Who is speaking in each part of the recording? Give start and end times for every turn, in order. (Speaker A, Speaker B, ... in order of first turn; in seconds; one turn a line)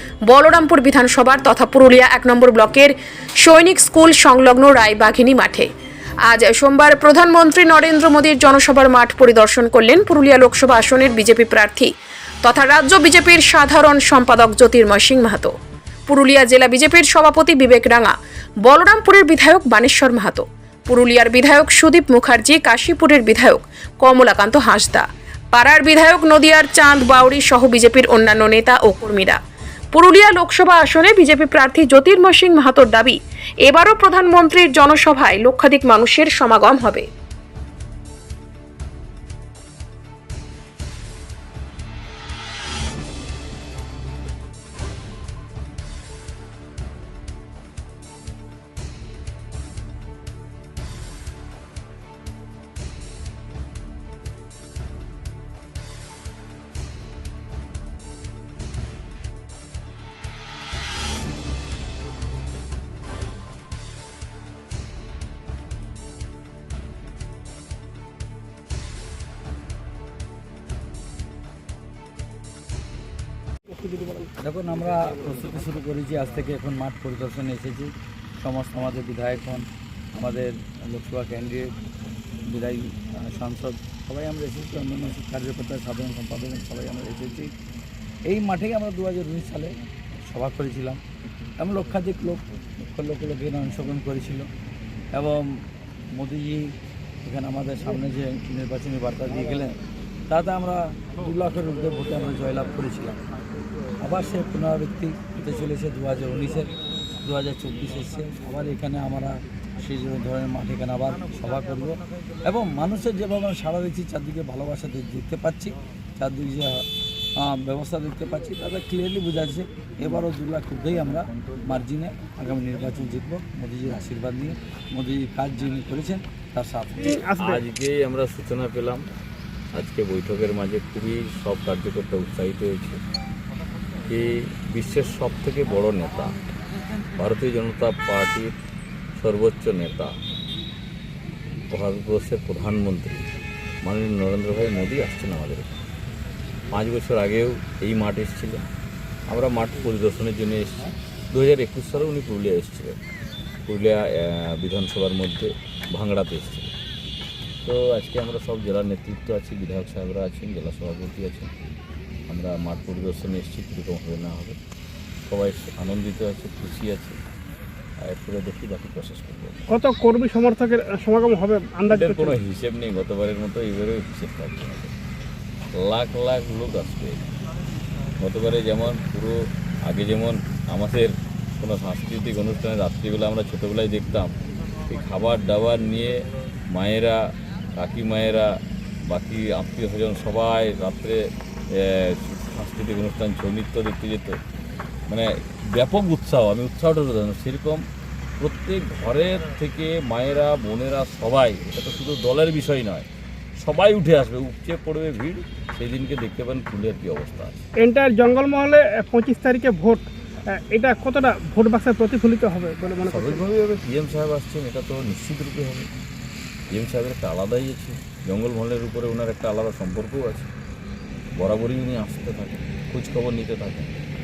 Speaker A: 0.3-5.7
Speaker A: 6.3-11.9
Speaker A: 12.4-15.5
Speaker A: 16.1-18.1
Speaker A: 18.6-29.4
Speaker A: 29.9-37.1
Speaker B: 73.7-74.3
Speaker C: 74.4-81.7
Speaker C: 82.5-87.5
Speaker C: 88.2-89.7
Speaker C: 90.3-91.0
Speaker C: 91.6-94.5
Speaker C: 95.1-99.8
Speaker C: 100.3-103.2
Speaker C: 104.0-106.7
Speaker C: 107.2-116.9
Speaker C: 117.4-127.2
Speaker B: 127.0-127.6
Speaker D: 127.4-129.1
Speaker D: 129.7-133.0
Speaker D: 134.1-136.4
Speaker D: 137.2-138.5
Speaker D: 139.1-140.2
Speaker D: 141.7-143.3
Speaker D: 143.8-145.7
Speaker D: 146.7-148.7
Speaker D: 149.3-153.0
Speaker D: 153.7-156.7
Speaker D: 157.6-161.5
Speaker D: 162.3-164.6
Speaker D: 165.3-167.2
Speaker D: 168.0-169.6
Speaker B: 169.7-172.3
Speaker D: 171.9-174.9
Speaker D: 175.7-177.2
Speaker D: 178.2-184.3
Speaker D: 184.9-194.4
Speaker D: 195.1-197.8
Speaker D: 198.4-207.6
Speaker B: 207.8-213.4
Speaker D: 213.1-215.9
Speaker D: 216.7-220.5
Speaker D: 221.3-224.0